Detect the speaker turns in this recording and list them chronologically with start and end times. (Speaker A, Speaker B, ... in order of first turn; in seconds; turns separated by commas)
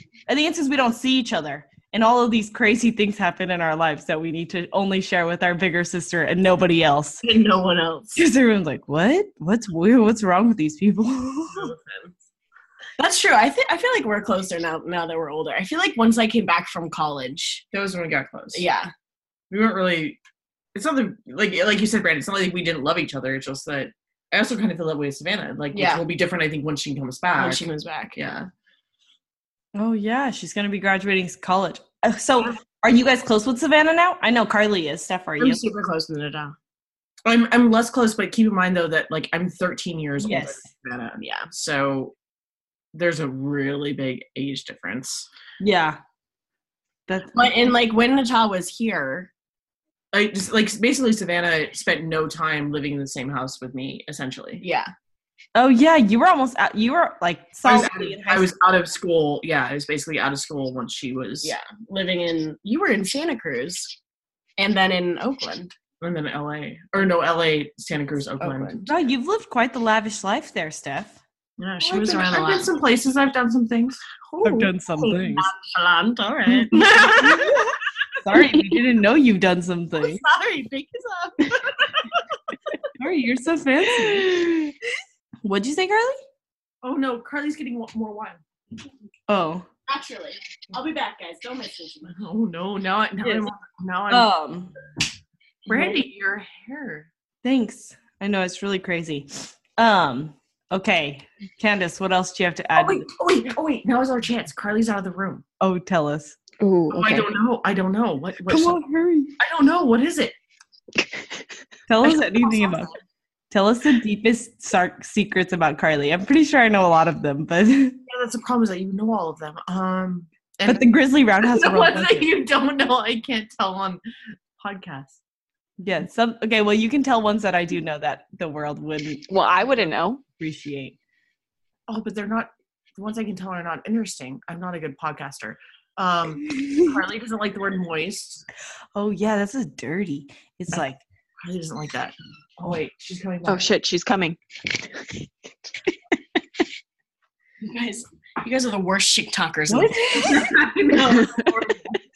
Speaker A: 0.3-7.2, Speaker B: 7.2-8.2, Speaker A: 8.2-11.7, Speaker B: 11.5-12.1, Speaker B: 13.0-17.6, Speaker C: 17.7-18.6, Speaker B: 18.5-18.9, Speaker C: 19.5-20.2, Speaker C: 20.7-28.5, Speaker B: 25.7-26.0, Speaker B: 27.4-28.1, Speaker A: 29.7-35.6, Speaker B: 35.4-36.5, Speaker C: 37.2-40.9, Speaker A: 40.2-40.6, Speaker B: 40.9-41.5, Speaker C: 41.5-42.1, Speaker C: 42.9-45.3, Speaker A: 45.6-46.0, Speaker A: 47.1-47.5, Speaker B: 47.3-49.3, Speaker C: 50.1-54.6, Speaker B: 54.6-54.9, Speaker A: 55.5-58.6, Speaker C: 57.6-61.5, Speaker B: 61.4-63.9, Speaker B: 64.6-65.7, Speaker C: 66.0-68.9, Speaker B: 68.4-68.8, Speaker A: 68.9-71.2, Speaker C: 71.6-74.0, Speaker B: 71.8-72.7, Speaker B: 74.3-77.7, Speaker A: 74.4-75.5, Speaker C: 76.7-77.5, Speaker A: 77.1-80.2, Speaker B: 80.0-82.8, Speaker A: 82.9-84.7, Speaker A: 85.4-86.2, Speaker C: 86.8-88.4, Speaker A: 89.3-89.7, Speaker B: 89.9-92.2, Speaker C: 92.1-94.3, Speaker A: 93.2-93.5, Speaker A: 94.1-94.7, Speaker B: 95.7-96.0, Speaker C: 95.7-97.1, Speaker A: 97.4-103.1, Speaker C: 102.8-105.4, Speaker A: 105.6-106.4, Speaker D: 106.6-107.3, Speaker C: 106.9-108.8, Speaker A: 108.5-109.4, Speaker C: 109.4-110.3, Speaker D: 111.0-111.5, Speaker A: 111.9-112.9, Speaker B: 112.0-113.0, Speaker A: 113.5-118.0, Speaker C: 118.1-120.9, Speaker A: 120.7-122.3, Speaker C: 121.4-124.0, Speaker C: 124.6-125.2, Speaker A: 125.8-129.3, Speaker D: 129.3-130.2, Speaker A: 130.4-130.9, Speaker C: 131.9-138.4, Speaker A: 136.6-136.9, Speaker A: 138.9-141.0, Speaker C: 141.4-143.7, Speaker D: 143.4-145.2, Speaker B: 147.6-150.3, Speaker A: 149.7-150.5, Speaker C: 150.2-151.9